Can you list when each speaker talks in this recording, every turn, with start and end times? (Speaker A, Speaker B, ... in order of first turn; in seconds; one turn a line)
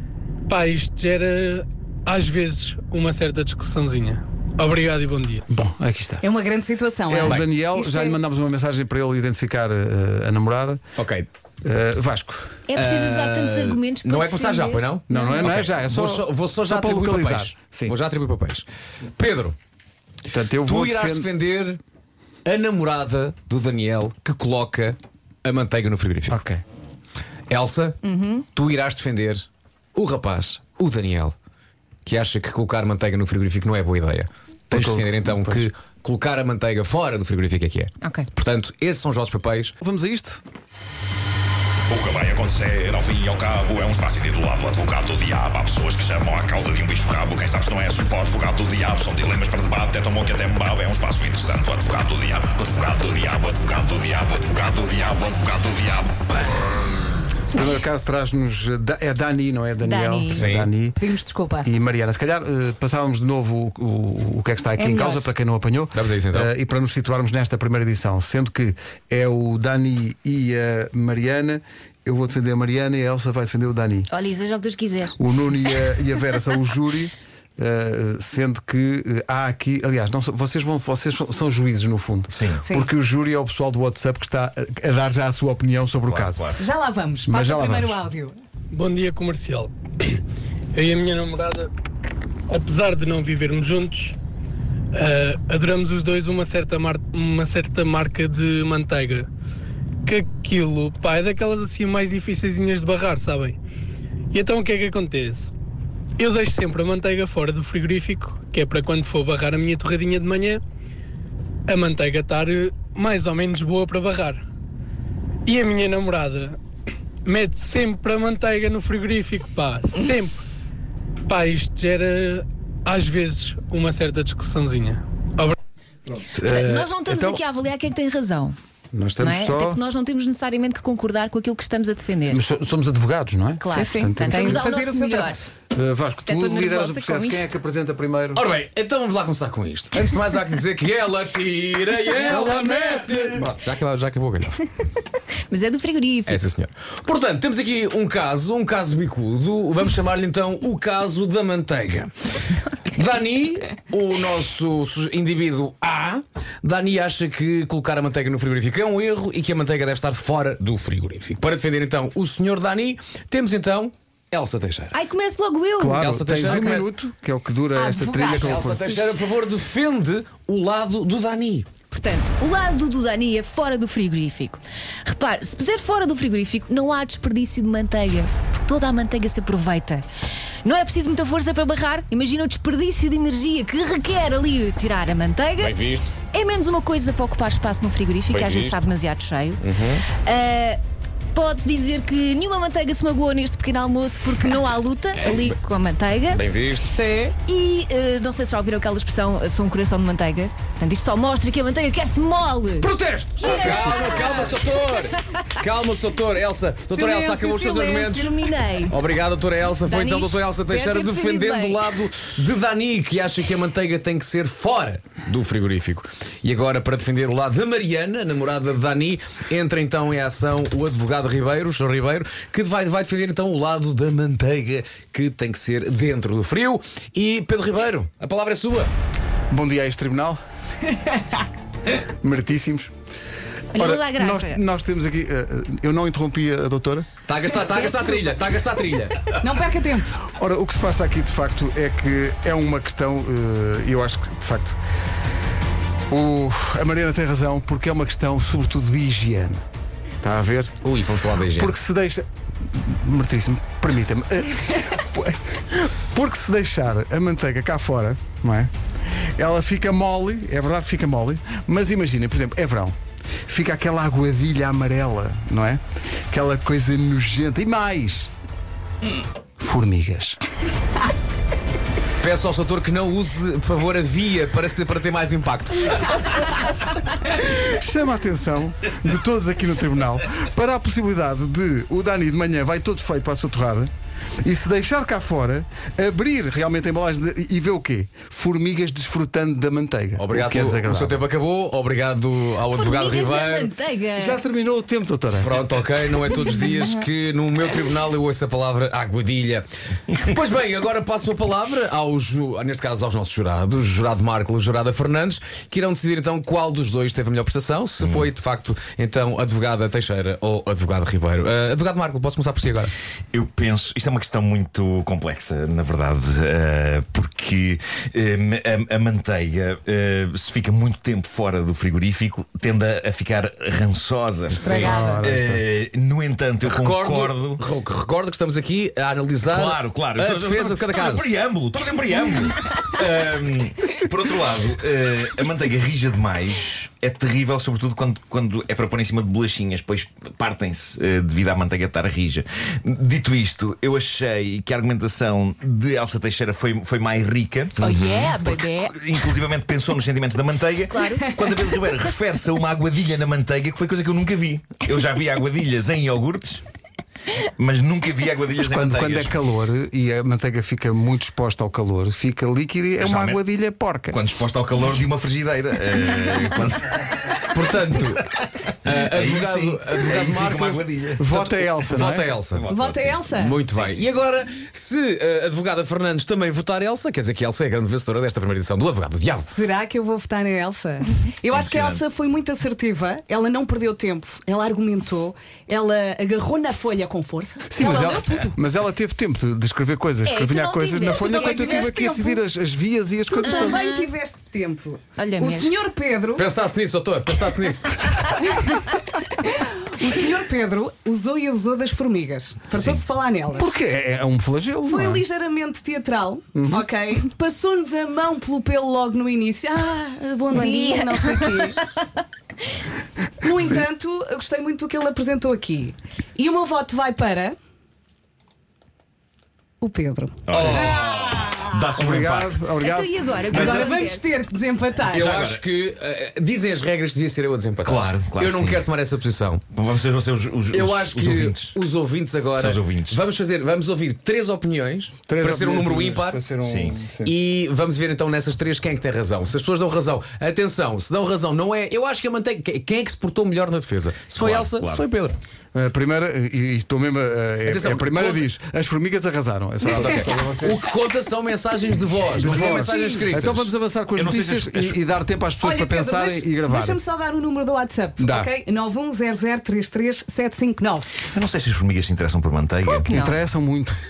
Speaker A: 0.5-5.4
Speaker B: 5.5-6.2
Speaker C: 6.2-8.2
Speaker B: 7.1-10.8
Speaker D: 11.0-11.3
Speaker B: 11.6-12.6
Speaker E: 12.7-15.6
Speaker D: 12.7-19.6
Speaker B: 15.1-17.9
Speaker B: 20.2-21.3
Speaker D: 20.6-21.8
Speaker D: 22.4-26.4
Speaker B: 26.3-26.6
Speaker D: 27.5-31.3
Speaker E: 28.0-28.4
Speaker D: 32.0-39.7
Speaker B: 34.7-35.7
Speaker E: 38.0-38.3
Speaker B: 39.8-40.4
Speaker F: 41.9-56.3
Speaker B: 57.5-61.0
Speaker E: 59.8-60.5
Speaker D: 60.3-60.7
Speaker C: 60.9-61.7
Speaker B: 61.6-74.1
Speaker C: 64.8-65.3
Speaker D: 65.9-66.5
Speaker E: 74.1-75.1
Speaker B: 75.2-86.5
Speaker F: 82.3-82.6
Speaker F: 86.0-86.6
Speaker C: 86.6-88.4
Speaker B: 87.3-88.0
Speaker A: 88.7-90.2
Speaker A: 90.7-91.7
Speaker A: 92.5-94.2
Speaker A: 94.9-99.3
Speaker A: 100.0-103.6
Speaker A: 104.3-105.5
Speaker A: 106.2-110.6
Speaker A: 111.7-114.4
Speaker A: 115.5-116.6
Speaker A: 117.2-120.4
Speaker A: 121.3-125.5
Speaker B: 126.2-127.4
Speaker E: 126.4-128.6
Speaker B: 128.9-129.8
Speaker E: 129.2-132.4
Speaker B: 132.3-134.6
Speaker E: 133.6-135.4
Speaker C: 133.7-135.4
Speaker B: 135.7-138.5
Speaker E: 136.2-137.5
Speaker D: 138.3-144.6
Speaker B: 142.1-143.5
Speaker E: 145.5-146.4
Speaker D: 146.2-152.1
Speaker D: 152.9-164.9
Speaker E: 164.9-166.0
Speaker B: 165.8-168.9
Speaker D: 166.0-166.9
Speaker C: 167.7-169.1
Speaker D: 168.4-171.7
Speaker E: 171.9-180.0
Speaker E: 180.6-185.7
Speaker D: 185.6-186.1
Speaker E: 186.3-190.8
Speaker D: 188.3-188.9
Speaker D: 189.6-190.0
Speaker E: 191.3-196.4
Speaker D: 195.2-195.5
Speaker D: 196.3-196.8
Speaker C: 196.9-197.4
Speaker E: 197.4-204.8
Speaker D: 202.8-208.3
Speaker C: 206.9-208.2
Speaker E: 208.0-208.9
Speaker D: 208.9-228.9
Speaker E: 209.8-211.8
Speaker B: 229.5-230.4
Speaker B: 231.9-232.9
Speaker E: 233.7-234.6
Speaker B: 233.8-237.1
Speaker D: 237.3-239.3
Speaker E: 237.8-238.3
Speaker C: 239.4-240.1
Speaker B: 240.3-244.8
Speaker B: 246.1-249.6
Speaker B: 250.2-250.8
Speaker D: 250.8-251.7
Speaker B: 251.5-258.7
Speaker B: 259.4-262.9
Speaker B: 263.5-268.3
Speaker B: 269.6-270.4
Speaker D: 272.2-276.2
Speaker B: 277.2-283.9
Speaker B: 284.4-291.2
Speaker D: 290.1-293.7
Speaker E: 292.6-294.4
Speaker B: 294.1-295.6
Speaker D: 295.4-312.9
Speaker F: 308.0-308.3
Speaker F: 313.3-327.6
Speaker C: 324.6-325.3
Speaker D: 324.6-324.9
Speaker B: 324.7-325.6
Speaker D: 326.6-331.3
Speaker F: 329.4-356.6
Speaker E: 347.8-349.1
Speaker E: 350.9-351.4
Speaker F: 357.6-359.3
Speaker B: 358.6-364.2
Speaker F: 363.0-363.4
Speaker F: 364.1-367.4
Speaker D: 367.5-368.3
Speaker D: 368.8-372.7
Speaker F: 368.8-371.2
Speaker B: 371.2-372.3
Speaker F: 371.9-374.1
Speaker C: 372.7-373.6
Speaker D: 373.3-379.5
Speaker C: 379.5-388.5
Speaker F: 381.5-382.0
Speaker B: 387.7-393.8
Speaker E: 390.2-391.8
Speaker C: 391.0-392.4
Speaker C: 393.3-396.5
Speaker E: 393.4-394.1
Speaker E: 395.2-395.8
Speaker D: 396.4-398.2
Speaker C: 398.5-403.7
Speaker B: 403.5-405.2
Speaker C: 404.9-411.9
Speaker B: 406.5-406.8
Speaker E: 410.5-411.7
Speaker C: 413.4-417.6
Speaker B: 413.6-413.8
Speaker C: 419.8-421.8
Speaker F: 420.5-422.6
Speaker D: 420.5-421.0
Speaker B: 421.9-423.5
Speaker E: 422.8-424.4
Speaker C: 423.5-425.4
Speaker F: 423.5-423.9
Speaker D: 425.1-429.6
Speaker F: 425.1-425.6
Speaker F: 427.8-428.9
Speaker F: 429.7-431.8
Speaker D: 430.7-436.4
Speaker F: 432.5-433.2
Speaker B: 435.3-437.4
Speaker F: 436.6-437.0
Speaker D: 437.2-445.4
Speaker F: 444.3-445.0
Speaker B: 445.7-450.8
Speaker D: 447.6-448.4
Speaker D: 449.8-453.7
Speaker B: 452.3-457.0
Speaker F: 452.4-453.1
Speaker F: 454.1-455.0
Speaker C: 455.6-461.1
Speaker B: 458.2-458.5
Speaker F: 461.3-463.1
Speaker E: 462.8-463.4
Speaker B: 463.1-464.0